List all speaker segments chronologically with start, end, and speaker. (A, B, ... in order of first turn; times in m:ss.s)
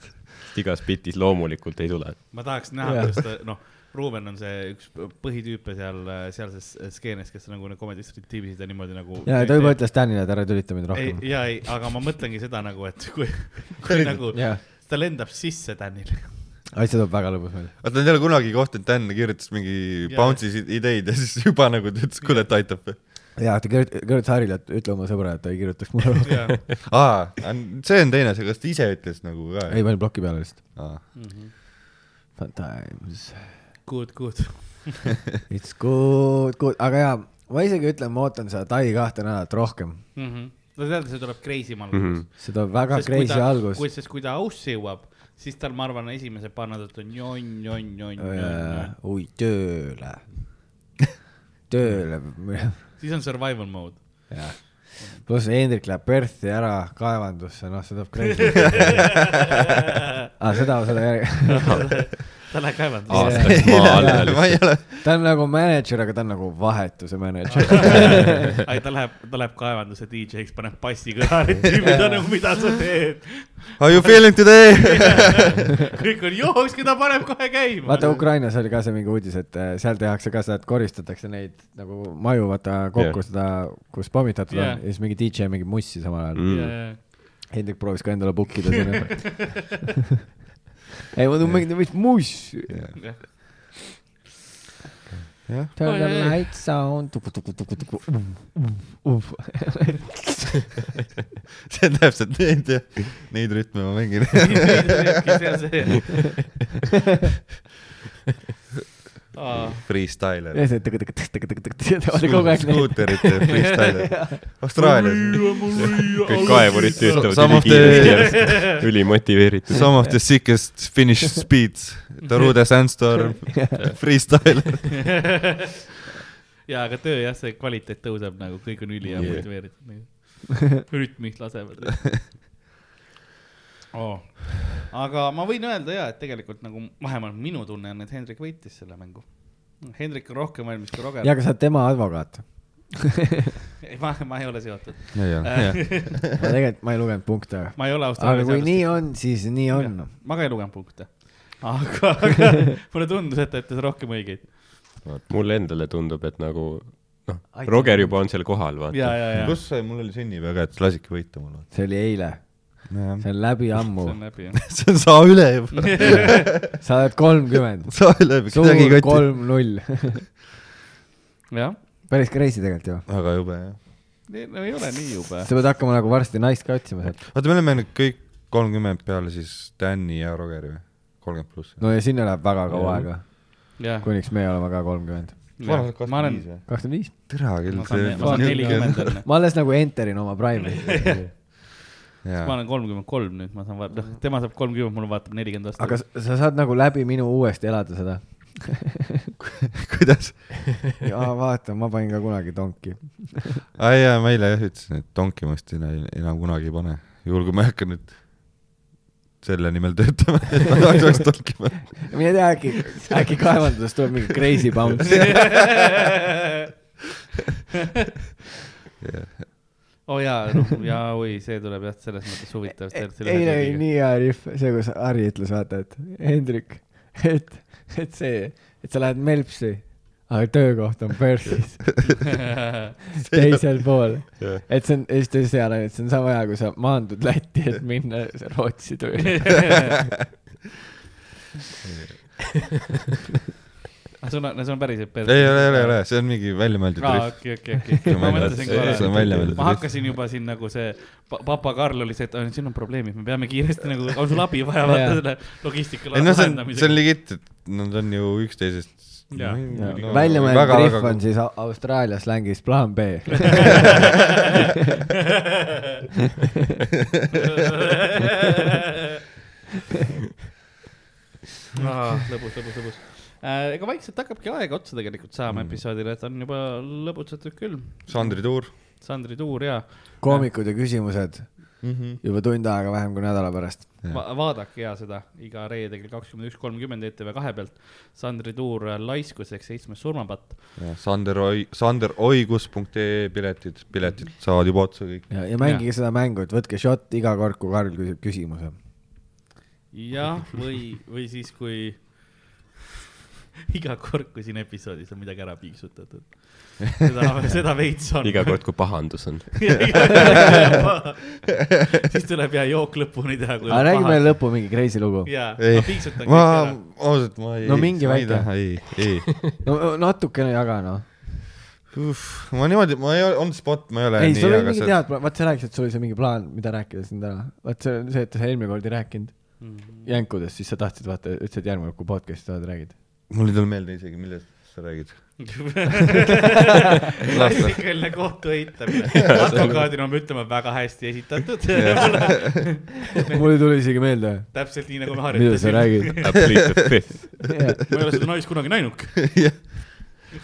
0:00.5-0:02.3 A
0:02.3-0:09.8 B
0:02.8-0:03.1 C
0:09.2-0:11.4 C
0:10.9-0:16.4 B
0:13.9-0:14.2 D
0:14.3-0:14.6 C
0:16.7-0:17.7 C
0:17.8-0:23.0 D
0:20.0-0:20.4 B
0:22.2-0:22.5 B
0:23.4-0:26.7 C
0:26.2-0:26.6 B
0:26.9-0:30.2 D
0:29.7-0:30.7 C
0:30.8-0:31.0 D
0:31.1-0:31.5 B
0:32.4-0:33.5 C
0:33.8-0:35.1 B
0:35.5-0:40.0 C
0:40.2-0:48.9 B
0:41.9-0:42.2 A
0:42.4-0:43.8 C
0:48.2-0:50.3 C
0:51.7-0:52.9 C
0:52.9-0:55.2 B
0:54.3-0:59.3 C
0:58.6-0:59.3 B
0:58.6-0:59.1 D
1:00.4-1:01.9 C
1:01.5-1:03.6 B
1:01.7-1:02.2 A
1:03.1-1:04.7 A
1:03.1-1:08.5 C
1:03.3-1:05.0 D
1:07.5-1:18.2 B
1:11.8-1:12.4 C
1:13.8-1:15.5 D
1:17.8-1:29.8 C
1:24.5-1:24.8 B
1:26.4-1:26.8 A
1:26.5-1:27.4 B
1:31.1-1:33.0 C
1:31.4-1:31.8 D
1:32.7-1:33.0 D
1:33.0-1:33.8 B
1:35.1-1:35.7 D
1:35.8-1:40.3 C
1:35.8-1:36.4 B
1:41.7-1:44.9 D
1:44.4-1:46.4 B
1:49.3-1:49.8 B
1:49.7-1:50.6 D
1:50.5-1:54.4 C
1:52.1-1:55.7 D
1:53.5-1:54.1 B
1:54.8-1:58.8 B
1:55.8-2:00.0 A
1:56.3-1:58.7 D
1:59.7-2:05.3 D
2:06.6-2:12.2 B
2:09.1-2:09.4 A
2:09.1-2:09.4 D
2:13.9-2:21.4 B
2:21.2-2:23.0 C
2:23.8-2:26.2 B
2:25.1-2:26.2 D
2:26.4-2:30.1 C
2:27.8-2:34.9 B
2:35.3-2:39.5 A
2:37.5-2:38.2 C
2:38.9-2:39.6 B
2:39.4-2:41.7 D
2:41.7-2:44.2 C
2:42.9-2:43.8 D
2:44.0-2:44.6 B
2:44.7-2:46.5 D
2:45.9-2:46.3 B
2:46.7-2:50.2 C
2:47.9-2:49.5 D
2:51.5-2:51.8 B
2:52.1-2:53.0 C
2:53.1-2:53.8 D
2:54.3-2:55.5 B
2:55.4-2:57.2 C
2:57.0-3:01.8 D
3:01.8-3:05.5 C
3:02.7-3:03.1 A
3:03.8-3:04.1 B
3:05.6-3:06.5 B
3:05.6-3:09.2 D
3:06.7-3:07.3 C
3:07.7-3:09.3 B
3:08.1-3:11.2 C
3:10.7-3:11.6 B
3:12.2-3:12.6 D
3:12.4-3:16.0 B
3:15.8-3:19.0 C
3:19.7-3:20.9 D
3:21.0-3:23.6 C
3:23.8-3:28.4 D
3:29.4-3:32.3 D
3:32.0-3:35.5 C
3:34.9-3:35.9 D
3:35.0-3:36.1 B
3:39.0-3:39.6 D
3:40.1-3:43.9 B
3:43.0-3:52.0 C
3:53.2-4:00.1 C
3:53.2-3:54.0 D
3:59.2-4:00.0 B
4:01.9-4:02.3 D
4:04.2-4:06.1 B
4:05.2-4:09.8 D
4:07.0-4:17.0 B
4:08.2-4:09.8 A
4:14.8-4:15.2 C
4:16.1-4:21.2 D
4:19.3-4:20.6 B
4:19.7-4:24.1 C
4:27.4-4:28.6 B
4:31.7-4:40.5 B
4:35.5-4:35.8 D
4:38.1-4:38.7 D
4:40.2-4:44.0 C
4:41.8-4:42.2 D
4:44.1-4:50.7 B
4:50.8-4:55.3 D
4:55.3-4:58.8 C
4:55.6-4:55.9 B
4:59.9-5:02.5 B
5:03.7-5:14.7 B
5:08.2-5:10.3 A
5:13.7-5:15.3 C
5:15.2-5:16.8 B
5:15.6-5:19.6 D
5:17.6-5:18.8 C
5:19.6-5:21.2 C
5:21.9-5:25.0 D
5:24.2-5:33.0 C
5:29.6-5:30.2 B
5:33.3-5:35.8 D
5:35.4-5:36.6 B
5:37.1-5:38.0 D
5:37.2-5:43.4 B
5:39.2-5:39.9 A
5:41.7-5:42.8 D
5:43.3-5:46.4 C
5:44.5-5:46.3 B
5:46.2-5:47.5 A
5:47.5-5:47.8 C
5:47.9-5:49.7 B
5:49.3-5:50.3 D